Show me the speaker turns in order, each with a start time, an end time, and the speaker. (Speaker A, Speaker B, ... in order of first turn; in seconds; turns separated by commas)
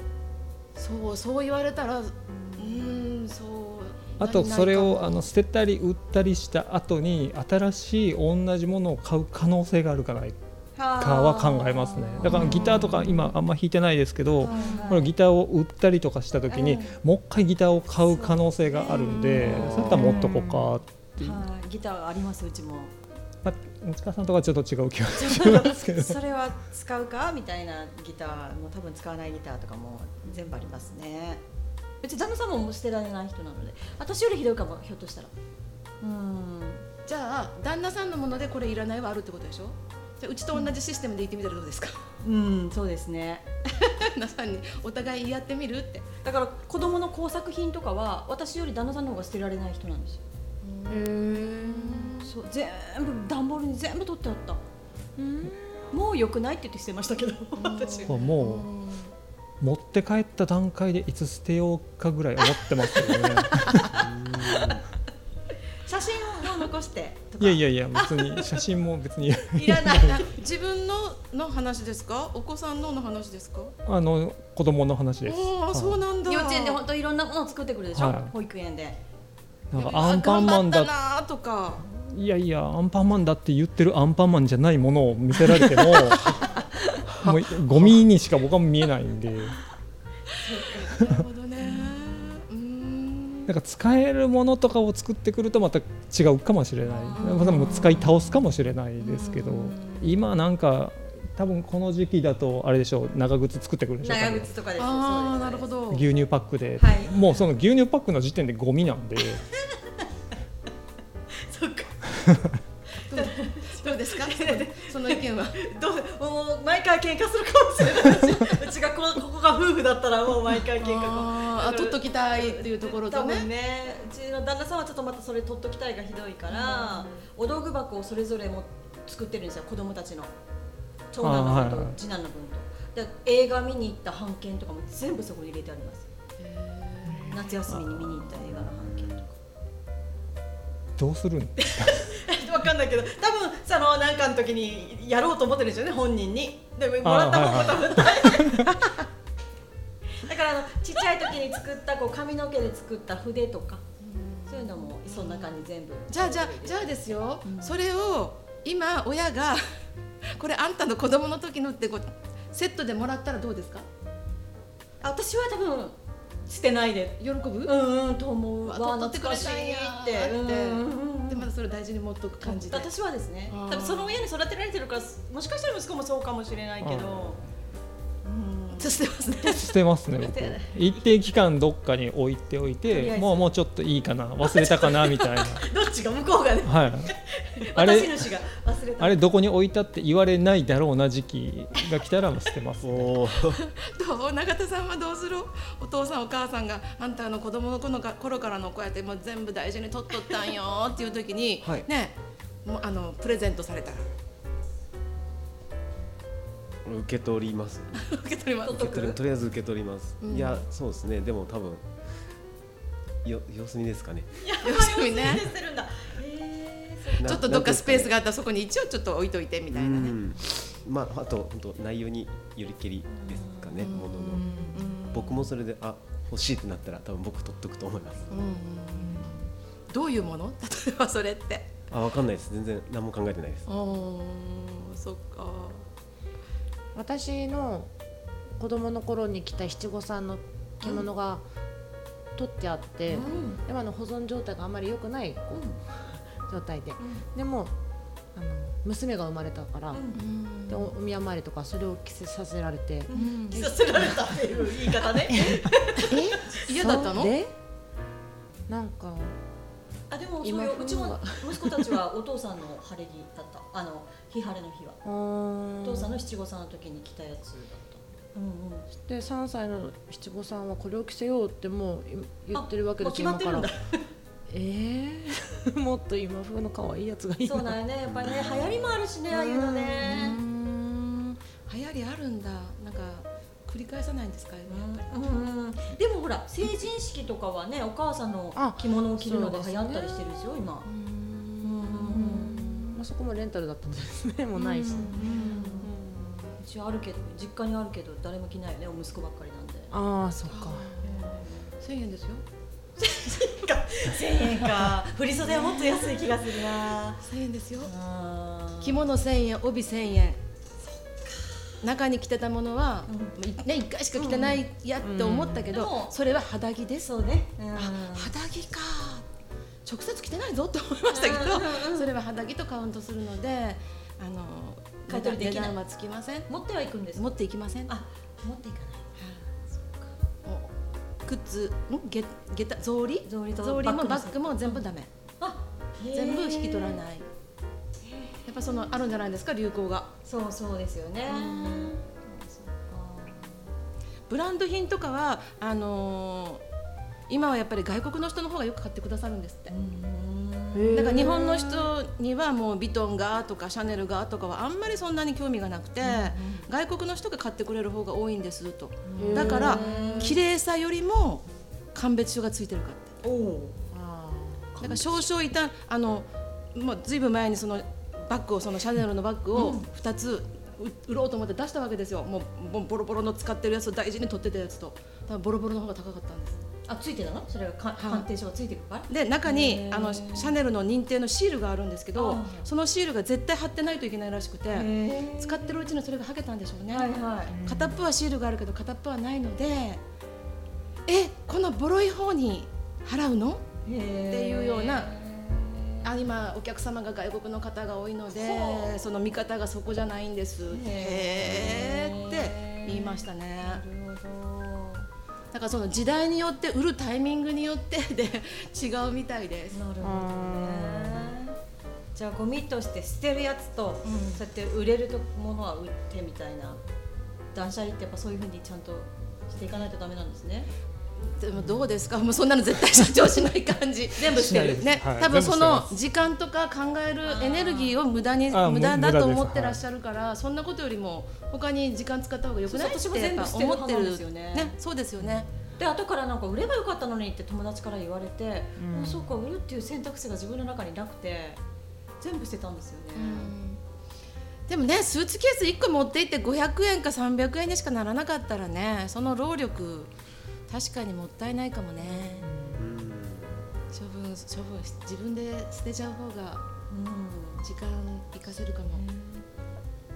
Speaker A: 0.8-5.2, Speaker B: 2.3-3.0, Speaker C: 4.2-10.4, Speaker B: 10.8-12.9, Speaker C: 11.0-21.4, Speaker A: 12.5-12.8, Speaker B: 14.4-15.1, Speaker A: 14.5-14.8, Speaker B: 16.5-17.0, Speaker B: 18.1-20.2, Speaker D: 19.5-20.7, Speaker B: 21.2-22.9, Speaker C: 23.4-26.2, Speaker B: 25.1-31.4, Speaker B: 32.0-35.3, Speaker B: 36.0-36.8, Speaker A: 37.0-42.0, Speaker B: 42.2-43.9, Speaker A: 43.9-46.1, Speaker B: 46.2-50.2, Speaker A: 50.6-52.3, Speaker D: 50.9-52.1, Speaker B: 52.2-54.6, Speaker D: 55.2-55.9, Speaker B: 55.9-58.2, Speaker A: 57.6-59.1, Speaker C: 58.1-58.7, Speaker C: 59.6-64.1, Speaker B: 63.0-64.8, Speaker E: 63.9-64.8, Speaker B: 65.8-68.6, Speaker C: 67.4-70.2, Speaker B: 69.5-70.2, Speaker A: 69.7-73.7, Speaker C: 73.9-76.0, Speaker A: 75.3-76.8, Speaker B: 76.3-79.0, Speaker C: 78.0-78.3, Speaker C: 79.7-80.9, Speaker A: 79.7-81.8, Speaker C: 81.8-86.5, Speaker C: 87.1-89.6, Speaker A: 90.4-93.5, Speaker B: 90.4-91.1, Speaker C: 93.5-104.5, Speaker B: 97.0-97.7, Speaker A: 97.1-97.8, Speaker A: 99.0-100.0, Speaker B: 104.0-105.7, Speaker A: 104.8-106.1, Speaker C: 105.9-109.4, Speaker B: 106.8-107.2, Speaker B: 109.5-110.1, Speaker B: 111.3-112.2, Speaker B: 113.0-130.3, Speaker A: 113.1-115.6, Speaker A: 120.8-123.5, Speaker A: 126.5-127.2, Speaker B: 131.1-136.1, Speaker C: 131.2-132.0, Speaker A: 136.4-137.5, Speaker B: 137.3-139.2, Speaker E: 138.3-139.3, Speaker C: 141.0-142.1, Speaker B: 141.6-148.9, Speaker C: 147.0-148.7, Speaker B: 150.2-153.8, Speaker A: 154.0-159.6, Speaker B: 154.5-156.9, Speaker B: 157.4-157.7, Speaker A: 160.4-163.9, Speaker B: 165.0-171.5, Speaker A: 167.2-167.8, Speaker A: 168.7-172.9, Speaker B: 172.4-177.4, Speaker A: 173.5-174.2, Speaker C: 176.8-177.2, Speaker B: 178.2-178.9, Speaker A: 178.8-179.7, Speaker C: 179.5-185.7, Speaker B: 180.2-181.1, Speaker B: 182.9-183.5, Speaker B: 184.4-189.2, Speaker C: 186.6-187.1, Speaker C: 187.7-188.3, Speaker C: 189.0-193.2, Speaker E: 192.8-193.6, Speaker A: 193.5-204.1, Speaker E: 206.8-211.8, Speaker A: 207.9-209.2, Speaker B: 208.6-209.1, Speaker A: 210.2-210.7, Speaker E: 213.2-214.3, Speaker B: 214.4-217.6, Speaker A: 214.6-215.5, Speaker A: 217.2-220.2, Speaker E: 217.2-218.1, Speaker E: 219.7-224.4, Speaker B: 223.1-224.8, Speaker A: 223.8-225.5, Speaker D: 224.4-224.7, Speaker E: 225.1-228.4, Speaker A: 228.3-231.8, Speaker E: 231.9-233.7, Speaker A: 233.7-235.8, Speaker D: 236.9-237.9, Speaker D: 238.6-241.4, Speaker D: 242.3-245.7, Speaker B: 243.1-243.6, Speaker B: 245.5-245.8, Speaker D: 246.5-247.7, Speaker B: 247.0-247.2, Speaker D: 248.3-250.1, Speaker B: 249.9-250.2, Speaker A: 250.2-250.9, Speaker D: 250.7-257.5, Speaker B: 253.1-256.6, Speaker A: 253.1-253.6, Speaker A: 256.5-257.3, Speaker D: 258.7-259.4, Speaker B: 260.1-265.0, Speaker D: 260.4-262.0, Speaker D: 265.0-266.2, Speaker B: 265.8-268.9, Speaker D: 269.0-273.7, Speaker B: 272.5-274.1, Speaker D: 274.5-277.8, Speaker B: 277.4-280.4, Speaker E: 278.1-279.0, Speaker D: 279.3-280.4, Speaker A: 280.1-285.0, Speaker B: 284.7-290.9, Speaker D: 288.6-290.2, Speaker A: 290.9-293.0, Speaker B: 291.6-292.9, Speaker D: 292.2-296.5, Speaker A: 294.6-295.9, Speaker B: 295.1-295.9, Speaker B: 296.6-299.9, Speaker D: 299.9-300.9, Speaker A: 300.5-302.4, Speaker B: 301.0-301.6, Speaker B: 303.0-307.2, Speaker A: 305.4-306.3, Speaker A: 307.2-307.9, Speaker B: 307.8-309.0, Speaker A: 308.8-310.4, Speaker A: 311.8-317.1, Speaker B: 313.1-313.4, Speaker B: 314.2-314.6, Speaker D: 315.0-315.7, Speaker B: 315.7-316.1, Speaker B: 317.0-318.3, Speaker A: 317.8-319.2, Speaker A: 319.9-326.5, Speaker B: 321.1-322.1, Speaker B: 325.1-325.8, Speaker B: 326.5-327.3, Speaker A: 327.1-327.9, Speaker B: 327.9-329.1, Speaker A: 329.2-329.4, Speaker B: 329.7-330.1, Speaker A: 330.4-330.7, Speaker A: 331.3-335.1, Speaker B: 333.2-334.8, Speaker B: 335.4-337.0, Speaker A: 336.1-337.3, Speaker B: 338.0-338.9, Speaker A: 338.5-340.1, Speaker B: 340.2-343.7, Speaker A: 341.3-341.9, Speaker A: 344.3-346.6, Speaker A: 347.3-349.7, Speaker B: 349.7-351.9, Speaker D: 350.7-351.5, Speaker A: 350.9-363.1, Speaker B: 356.0-356.7, Speaker B: 359.1-360.4, Speaker D: 359.2-360.4, Speaker B: 363.2-363.8, Speaker D: 363.9-364.7, Speaker A: 364.8-376.6, Speaker E: 364.8-365.2, Speaker B: 369.6-369.9, Speaker B: 376.9-380.6, Speaker A: 378.0-378.3, Speaker A: 379.1-390.0, Speaker B: 382.1-382.7, Speaker B: 384.7-385.7, Speaker B: 386.9-387.6, Speaker D: 387.5-388.0, Speaker A: 391.1-393.6, Speaker B: 393.9-396.1, Speaker A: 394.3-395.1, Speaker A: 396.0-403.8, Speaker B: 398.3-399.0, Speaker B: 400.7-405.1, Speaker A: 405.5-409.8, Speaker B: 409.7-411.6, Speaker D: 410.0-411.4, Speaker B: 412.1-416.8, Speaker A: 414.1-414.4, Speaker B: 417.5-420.7, Speaker A: 421.3-435.5, Speaker C: 424.2-425.9, Speaker B: 427.3-428.0, Speaker C: 428.5-429.8, Speaker B: 432.7-434.7, Speaker B: 435.8-441.6, Speaker D: 438.8-439.3, Speaker B: 442.2-443.5, Speaker A: 443.2-443.8, Speaker A: 444.7-450.1, Speaker A: 450.7-452.5, Speaker D: 452.4-452.9, Speaker E: 452.8-453.6, Speaker A: 453.9-456.6, Speaker B: 456.9-457.6, Speaker A: 457.6-459.0, Speaker B: 459.0-459.4